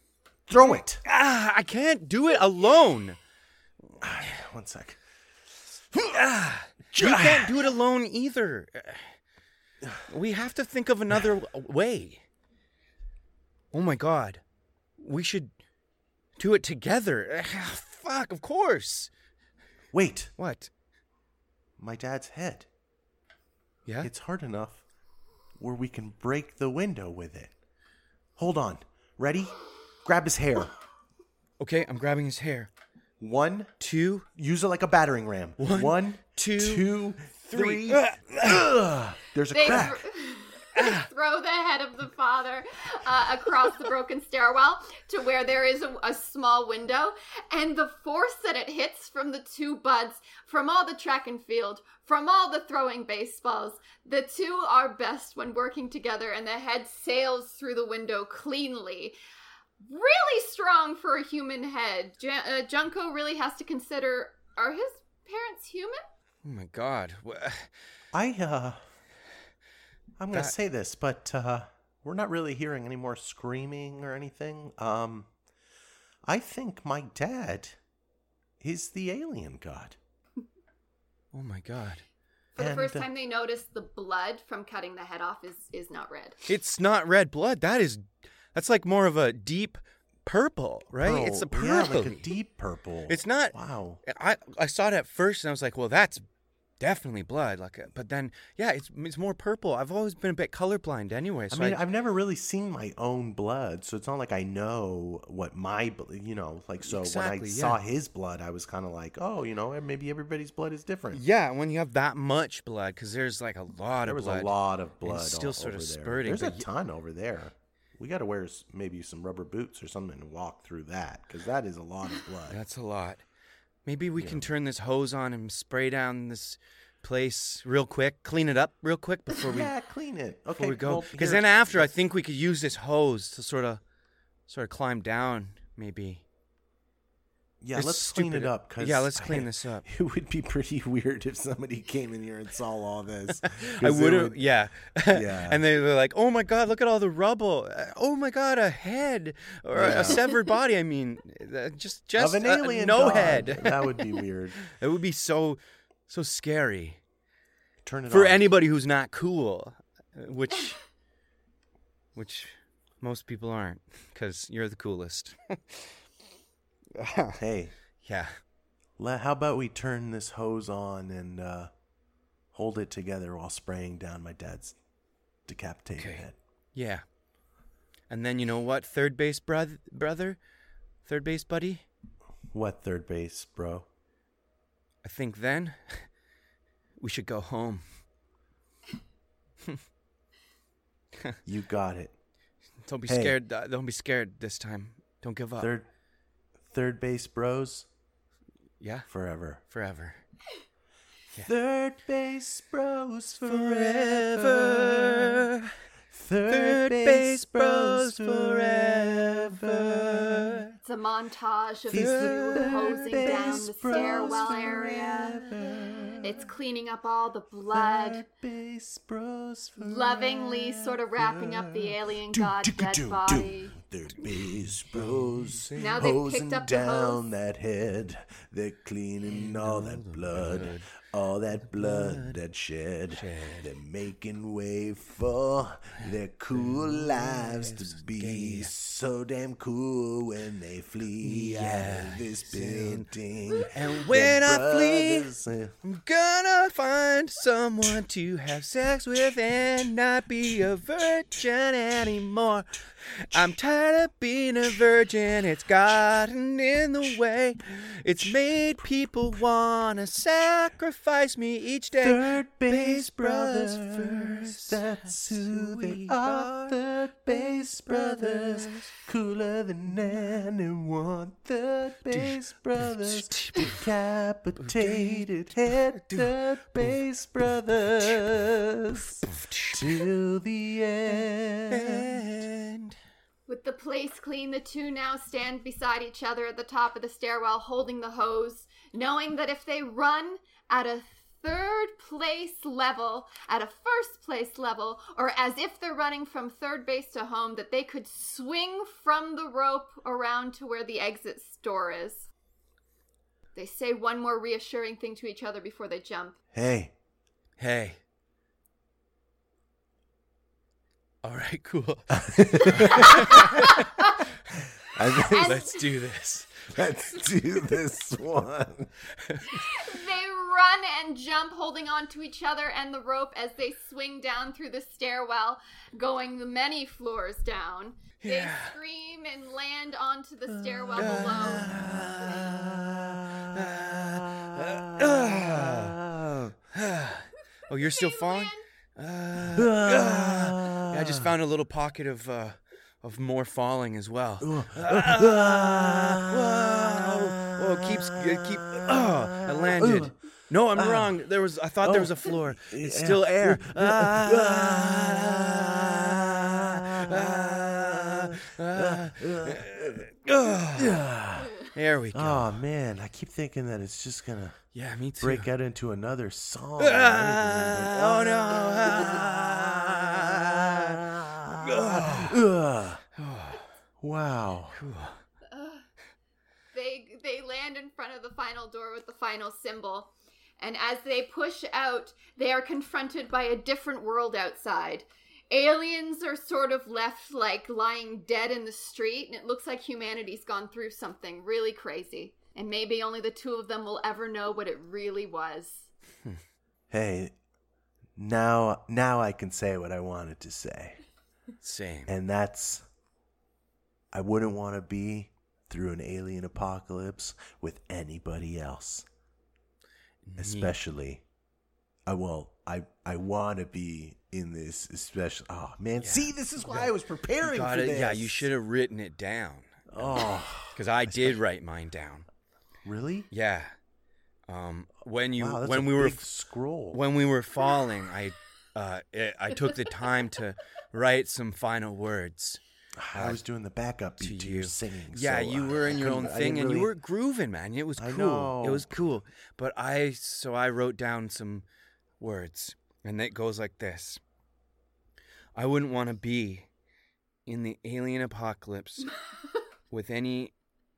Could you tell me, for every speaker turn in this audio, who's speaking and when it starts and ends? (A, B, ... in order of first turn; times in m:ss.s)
0:00.5-0:01.0 A
0:00.6-0:03.2 B
0:04.0-0:05.0 A
0:06.0-0:09.2 B
0:06.9-0:07.6 A
0:10.1-0:12.2 B
0:13.7-0:14.4 B
0:15.0-0:15.5 B
0:16.4-0:19.1 B
0:19.9-0:20.3 A
0:20.4-0:20.7 B
0:21.8-0:22.7 A
0:24.0-0:24.8 A
0:25.6-0:27.5 A
0:28.4-0:30.7 A
0:31.6-0:32.7 B
0:33.2-0:33.7 A
0:33.8-0:34.3 B
0:34.3-0:40.0 A
0:35.6-0:38.7 B
0:39.5-0:59.1 C
0:40.7-0:41.1 B
0:59.8-1:06.0 C
1:06.4-1:07.7 B
1:08.1-1:08.8 A
1:10.2-1:15.3 A
1:16.2-1:17.8 A
1:18.6-1:20.0 A
1:21.3-1:22.0 B
1:22.6-1:26.4 C
1:22.6-1:23.1 A
1:26.5-1:32.3 B
1:31.0-1:34.0 A
1:33.1-1:33.5 B
1:34.0-1:36.2 B
1:36.8-1:41.8 B
1:41.5-1:51.2 A
1:46.8-1:47.8 B
1:51.1-1:56.6 B
1:54.0-2:02.6 A
2:02.5-2:03.2 B
2:03.8-2:09.7 B
2:04.2-2:04.5 A
2:09.4-2:11.9 A
2:10.6-2:13.8 B
2:14.5-2:16.2 B
2:17.6-2:24.4 A
2:17.7-2:19.8 B
2:23.4-2:33.9 B
2:25.1-2:25.6 A
2:29.7-2:30.3 A
2:32.2-2:34.7 A
2:34.7-2:37.0 B
2:37.8-2:38.4 A
2:38.1-2:40.8 B
2:42.1-2:45.9 B
2:47.0-2:47.4 B
2:47.4-2:47.7 A
2:48.0-2:48.3 B
2:49.0-2:51.7 A
2:52.5-2:54.8 A
2:55.5-2:56.3 A
2:56.0-2:57.0 B
2:58.1-3:00.4 B
3:01.0-3:01.8 B
3:02.5-3:03.9 A
3:05.0-3:06.1 B
3:07.0-3:07.9 B
3:11.4-3:12.1 A
3:12.8-3:15.7 B
3:13.1-3:13.3 A
3:15.6-3:15.9 A
3:16.7-3:17.9 A
3:18.8-3:20.2 B
3:19.1-3:19.6 A
3:21.4-3:25.3 A
3:23.4-3:25.7 B
3:26.1-3:30.7 A
3:26.5-3:30.7 B
3:30.8-3:35.5 C
3:31.9-3:36.5 A
3:31.9-3:34.5 B
3:36.2-3:38.2 C
3:37.7-4:05.8 A
3:39.8-3:43.8 C
3:44.2-3:46.1 B
3:45.8-3:47.3 C
3:49.3-3:50.9 B
3:51.7-3:52.4 B
3:53.1-3:53.7 B
3:56.0-3:58.7 B
4:01.2-4:03.1 B
4:03.6-4:05.3 B
4:05.8-4:26.7 B
4:18.2-4:19.4 A
4:22.0-4:42.2 A
4:27.3-4:28.9 B
4:32.1-4:33.8 B
4:34.6-4:38.4 B
4:38.9-4:40.0 B
4:41.7-4:43.0 B
4:43.5-5:02.3 C
5:03.5-5:06.4 C
5:06.5-5:06.9 A
5:07.6-5:08.0 B
5:11.2-5:13.9 B
5:12.1-5:13.5 A
5:12.8-5:14.2 C
5:14.9-5:15.7 A
5:15.3-5:15.8 C
5:15.3-5:16.9 B
5:16.7-5:19.0 A
5:19.2-5:19.7 B
5:19.7-5:31.7 C
5:28.2-5:28.7 B
5:30.5-5:36.6 A
5:31.0-5:36.0 B
5:36.7-6:01.0 B
5:37.9-5:38.6 C
5:39.5-5:41.3 A
5:44.4-5:50.2 A
5:50.8-5:51.1 A
5:51.8-6:00.0 A
6:00.7-6:01.5 A
6:01.7-6:02.6 B
6:02.1-6:04.6 A
6:04.7-6:05.5 B
6:05.2-6:13.0 A
6:06.8-6:12.4 B
6:13.2-6:13.6 B
6:14.0-6:14.8 A
6:14.8-6:15.2 B
6:15.5-6:15.8 C
6:16.7-6:35.9 C
6:36.9-6:37.3 A
6:38.1-6:41.0 A
6:41.6-6:42.1 B
6:42.0-6:42.8 A
6:44.1-6:49.0 A
6:50.2-6:50.7 B
6:50.4-6:51.2 A
6:52.0-6:58.5 A
6:56.0-7:02.2 B
6:59.9-7:01.4 A
7:02.8-7:03.3 A
7:03.3-7:03.7 B
7:04.5-7:06.2 B
7:05.4-7:07.0 A
7:06.9-7:12.6 B
7:13.0-7:16.9 A
7:13.1-7:13.4 B
7:14.2-7:21.6 B
7:18.0-7:18.9 A
7:22.2-7:24.2 B
7:25.6-7:26.7 B
7:27.4-7:29.2 B
7:29.9-7:30.5 B